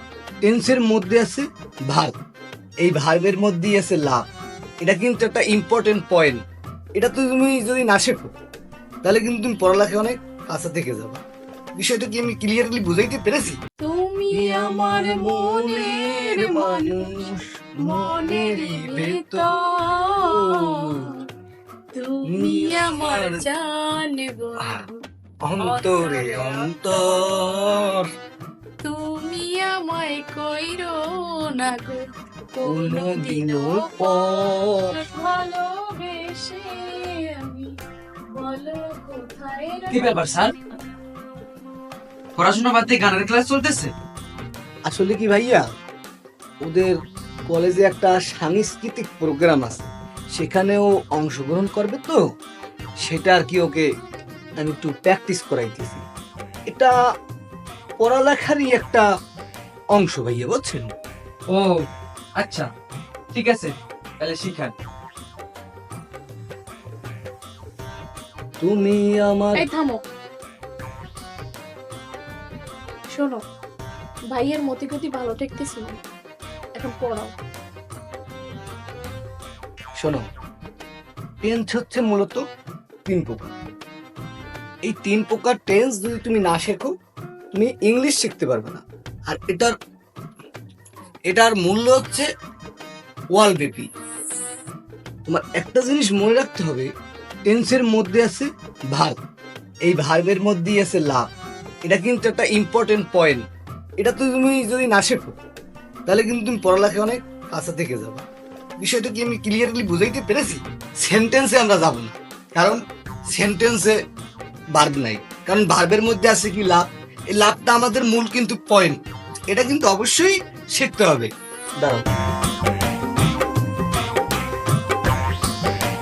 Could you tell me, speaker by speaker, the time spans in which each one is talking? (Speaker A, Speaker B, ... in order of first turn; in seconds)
Speaker A: 0.5-2.1, 2.8-4.2, 4.8-6.4, 7.0-8.3, 9.0-11.2, 11.8-13.6, 14.3-19.5, 20.2-21.1, 22.3-23.4, 25.5-28.0, 32.7-34.9, 44.9-45.6, 46.6-47.0, 47.5-52.2, 53.0-53.9, 54.6-56.0, 58.0-59.0, 60.0-60.9, 68.6-69.7, 81.4-82.4, 83.1-83.5, 84.8-86.9, 87.6-89.7, 91.3-92.3, 93.3-93.9, 95.3-96.9, 97.5-99.2, 99.8-101.3, 101.9-103.4, 104.0-105.3, 106.1-108.2, 108.8-112.8, 113.3-113.9, 114.8-116.8, 117.4-119.0, 119.5-121.3
Speaker B: 13.8-21.2, 21.9-25.0, 25.6-26.7, 28.8-31.0, 31.5-32.0, 32.5-37.7, 38.4-40.6, 69.6-70.0, 73.1-73.4, 74.3-76.0, 76.8-77.3
Speaker C: 39.9-40.5, 42.4-43.9, 61.5-61.8, 62.4-62.7, 63.3-64.7